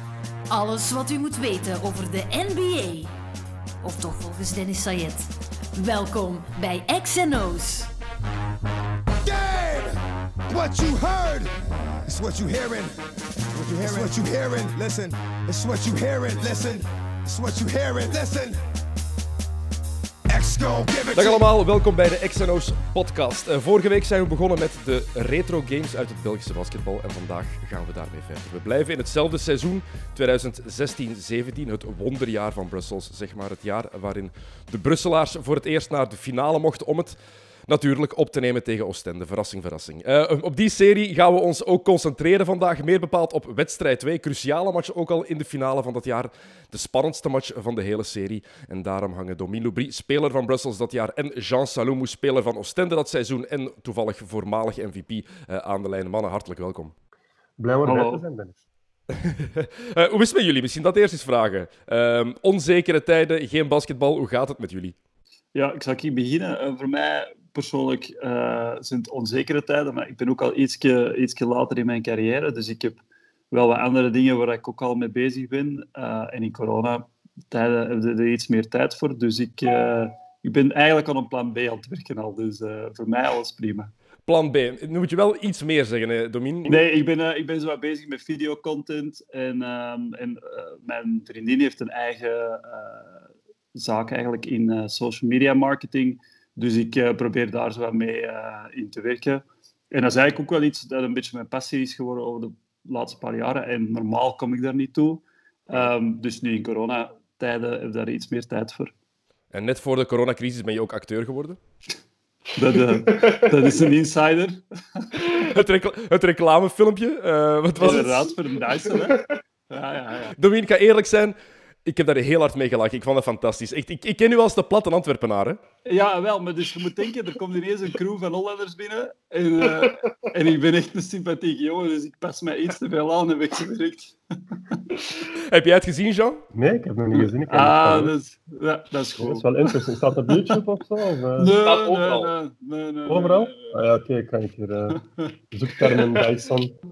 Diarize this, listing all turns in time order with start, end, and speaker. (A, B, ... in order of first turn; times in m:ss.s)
0:00.5-0:03.1 A
0:03.8-0:07.9 A
0:09.2-0:10.0 B
0:10.5-0:11.5 B
0:12.0-0:13.0 B
0:13.5-0:18.6 B
0:20.3-0:21.4 B
0:21.1-0:37.2 C
0:37.7-0:56.9 C
0:57.6-0:58.6 D
0:57.8-0:58.2 E
0:59.2-1:04.9 C
1:05.5-1:23.9 E
1:24.3-1:26.8 C
1:26.7-1:48.9 E
1:49.5-1:51.6 C
1:52.6-1:55.5 E
1:55.3-1:58.3 C
1:57.8-2:00.3 E
2:00.4-2:05.6 C
2:05.8-2:14.2 E
2:15.2-2:16.4 C
2:16.5-2:18.1 D
2:17.1-2:19.7 E
2:19.2-2:21.6 D
2:21.4-2:23.7 E
2:21.6-2:22.2 C
2:23.1-2:25.0 D
2:25.5-2:26.7 D